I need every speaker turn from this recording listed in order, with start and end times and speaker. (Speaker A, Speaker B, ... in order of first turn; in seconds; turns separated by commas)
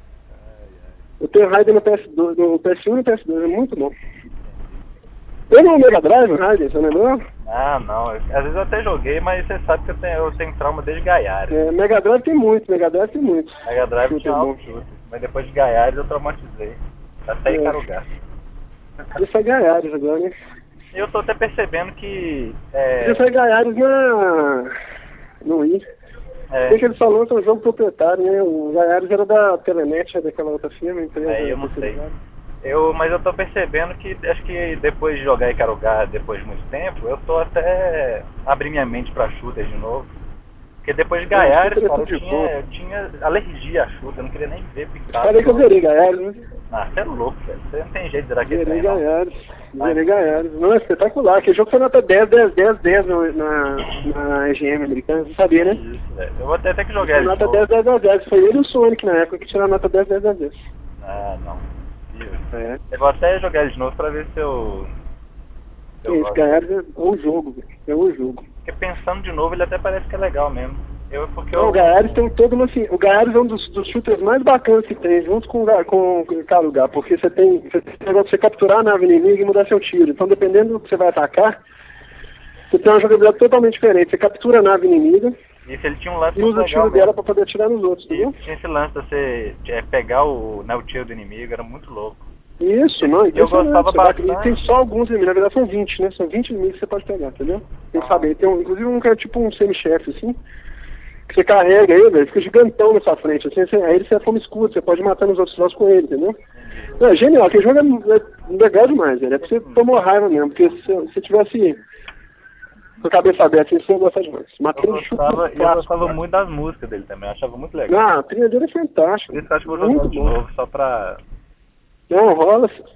Speaker A: 0.3-1.0, Speaker B: 1.2-3.9, Speaker A: 4.4-4.9, Speaker B: 5.5-7.2, Speaker A: 7.5-11.7, Speaker B: 11.5-14.6, Speaker A: 13.6-18.1, Speaker B: 17.5-17.8, Speaker B: 19.1-20.3, Speaker A: 20.9-23.2, Speaker B: 23.0-24.7, Speaker B: 25.4-25.8, Speaker A: 26.5-26.8, Speaker B: 26.7-32.1, Speaker A: 31.2-32.0, Speaker A: 32.6-40.1, Speaker A: 40.8-45.7, Speaker B: 41.3-42.5, Speaker B: 45.1-46.4, Speaker A: 46.7-49.0, Speaker B: 48.4-55.8, Speaker A: 49.8-50.1, Speaker A: 55.3-57.6, Speaker B: 57.0-60.7, Speaker A: 61.0-64.9, Speaker B: 62.5-62.8, Speaker A: 66.0-66.6, Speaker B: 66.1-68.4, Speaker A: 68.6-72.1, Speaker B: 71.5-81.6, Speaker B: 82.7-85.3, Speaker A: 85.7-87.1, Speaker B: 86.3-88.3, Speaker A: 88.1-92.2, Speaker B: 92.6-100.4, Speaker A: 93.0-94.7, Speaker A: 97.9-98.3, Speaker B: 101.3-106.3, Speaker A: 106.5-106.9, Speaker B: 107.0-111.8, Speaker A: 109.4-109.8, Speaker B: 113.0-116.2, Speaker A: 114.7-118.0, Speaker B: 117.9-120.3, Speaker A: 119.3-121.2, Speaker B: 122.1-122.8